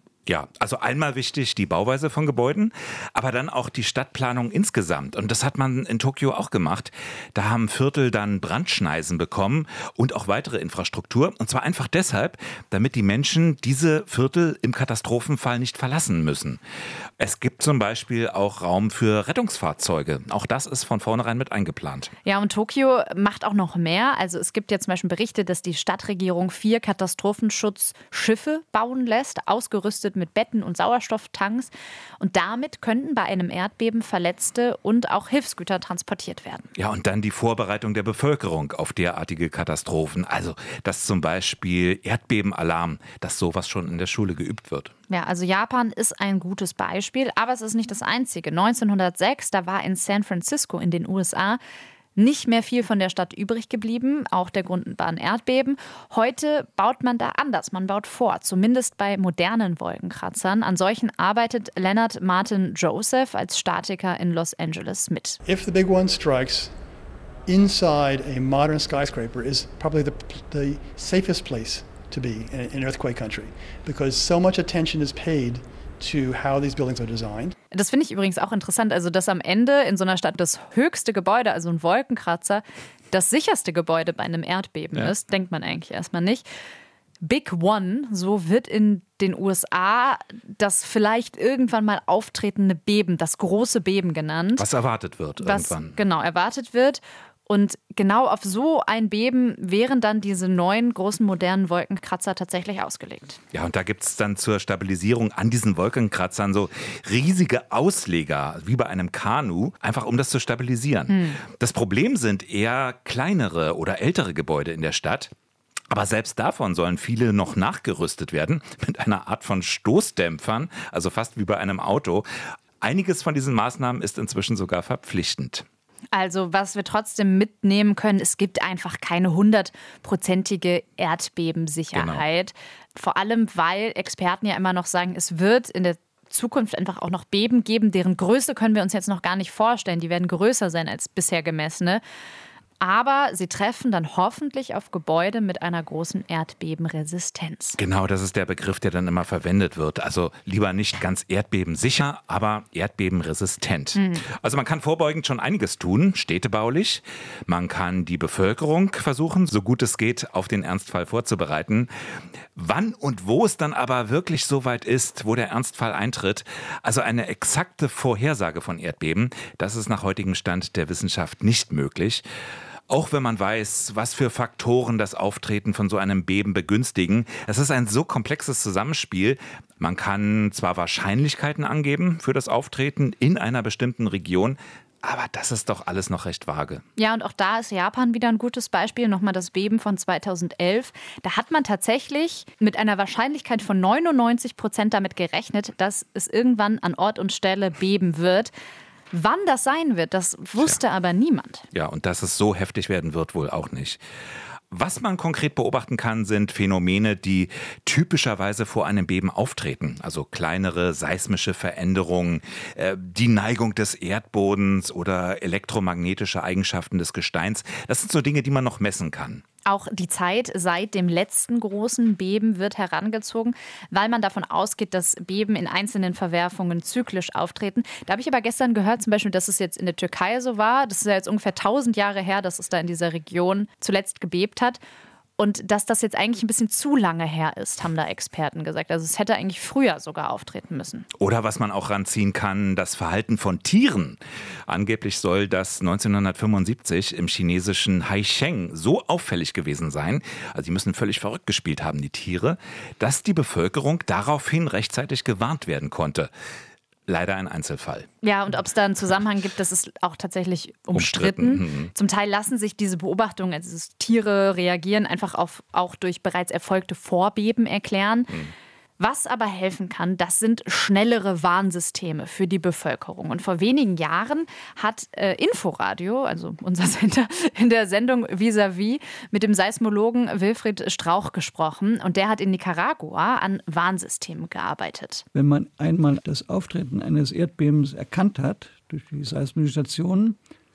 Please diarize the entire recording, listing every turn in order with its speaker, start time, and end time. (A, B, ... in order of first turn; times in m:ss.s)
0:00.3-0:16.6 A
0:17.2-0:22.1 A
0:22.2-0:36.7 B
0:36.8-0:44.9 A
0:45.1-0:51.6 B
0:52.2-1:05.4 B
1:05.4-1:06.7 C
1:07.5-1:17.5 C
1:17.7-1:26.4 B
1:27.2-1:34.7 B
1:34.6-1:36.0 A
1:35.4-1:43.4 B
1:43.5-1:55.3 A
1:51.1-1:51.4 B
1:55.9-2:02.2 A
2:02.8-2:05.6 A
2:06.1-2:22.0 B
2:11.9-2:12.2 A
2:22.8-2:27.8 B
2:27.8-2:41.9 A
2:33.9-2:34.2 B
2:42.6-2:52.2 A
2:52.9-3:06.8 A
3:07.0-3:18.5 B
3:19.1-3:21.6 B
3:21.7-3:24.0 A
3:24.7-3:39.4 A
3:39.6-3:54.8 B
3:55.4-4:01.0 B
4:01.2-4:16.3 A
4:17.1-4:18.1 A
4:18.2-4:28.4 B
4:20.9-4:21.9 A
4:29.0-4:45.2 B
4:45.3-4:50.4 D